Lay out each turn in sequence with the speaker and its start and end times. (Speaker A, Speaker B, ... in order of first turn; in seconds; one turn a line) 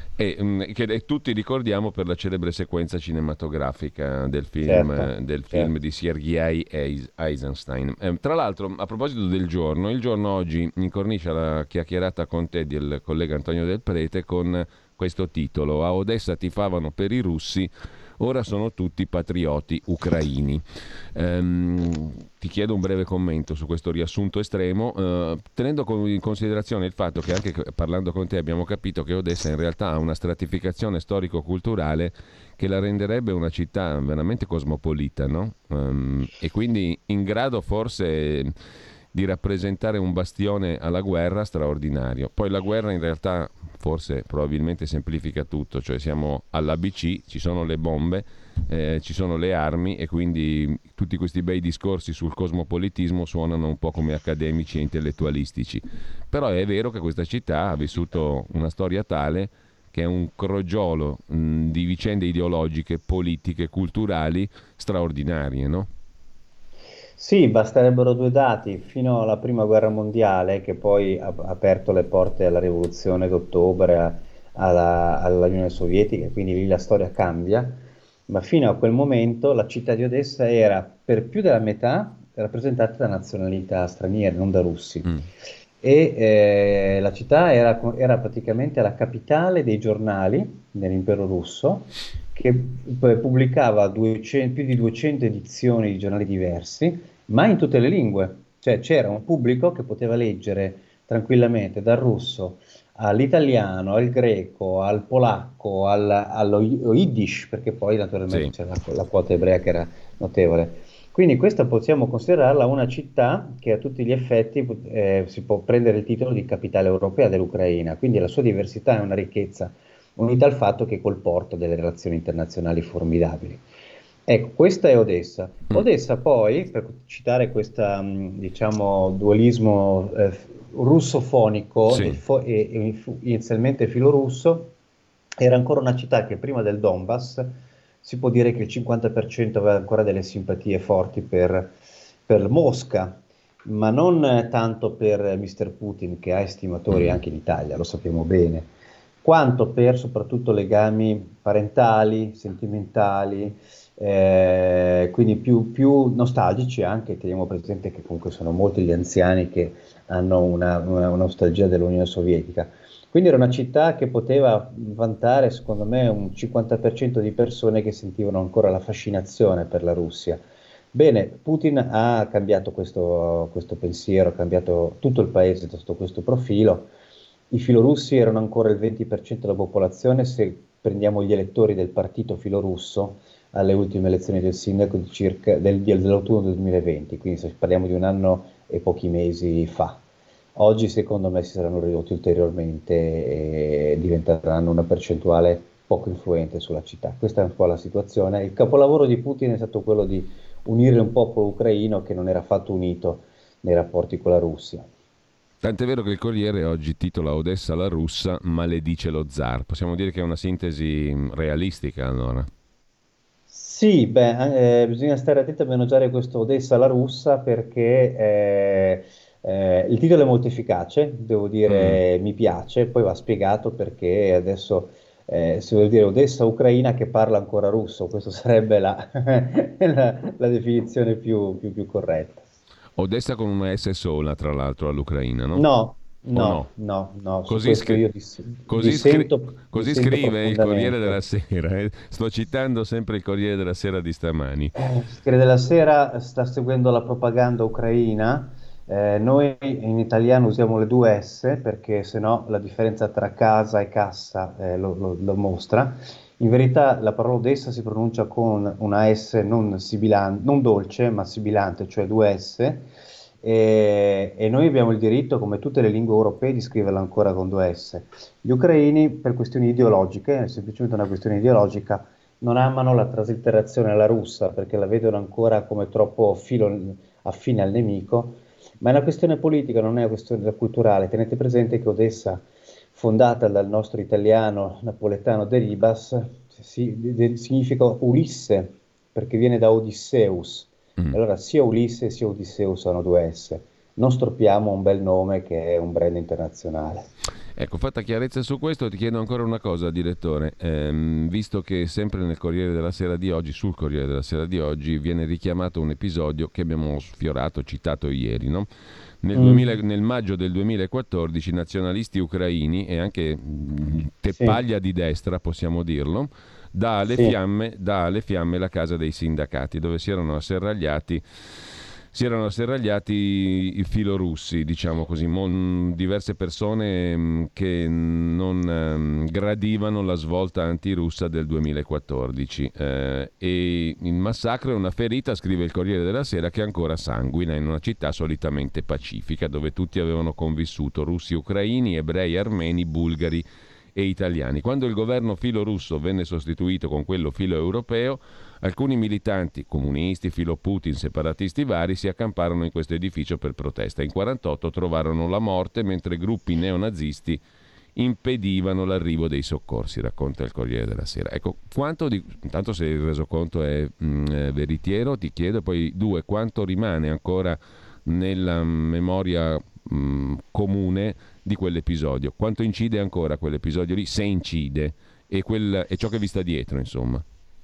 Speaker A: 0.2-38.5
Speaker B: 4.6-5.7
Speaker A: 39.1-65.9
Speaker B: 67.2-85.1
Speaker B: 85.8-123.6
Speaker B: 124.3-134.7
Speaker A: 131.9-132.2
Speaker B: 135.4-141.7
Speaker B: 142.3-148.7
Speaker A: 146.9-147.2
Speaker B: 149.2-170.4
Speaker B: 170.9-176.9
Speaker B: 177.5-190.0
Speaker B: 190.6-204.9
Speaker A: 205.6-212.5
Speaker B: 213.5-232.4
Speaker A: 221.7-222.0
Speaker A: 233.0-235.7
Speaker B: 235.6-241.2
Speaker A: 236.3-236.7
Speaker A: 237.5-238.1
Speaker A: 238.7-244.7
Speaker B: 244.8-262.9
Speaker B: 263.4-282.4
Speaker B: 282.9-297.1
Speaker A: 297.6-308.7
Speaker A: 309.2-321.2
Speaker B: 309.4-309.8
Speaker A: 322.1-357.4
Speaker A: 358.0-377.2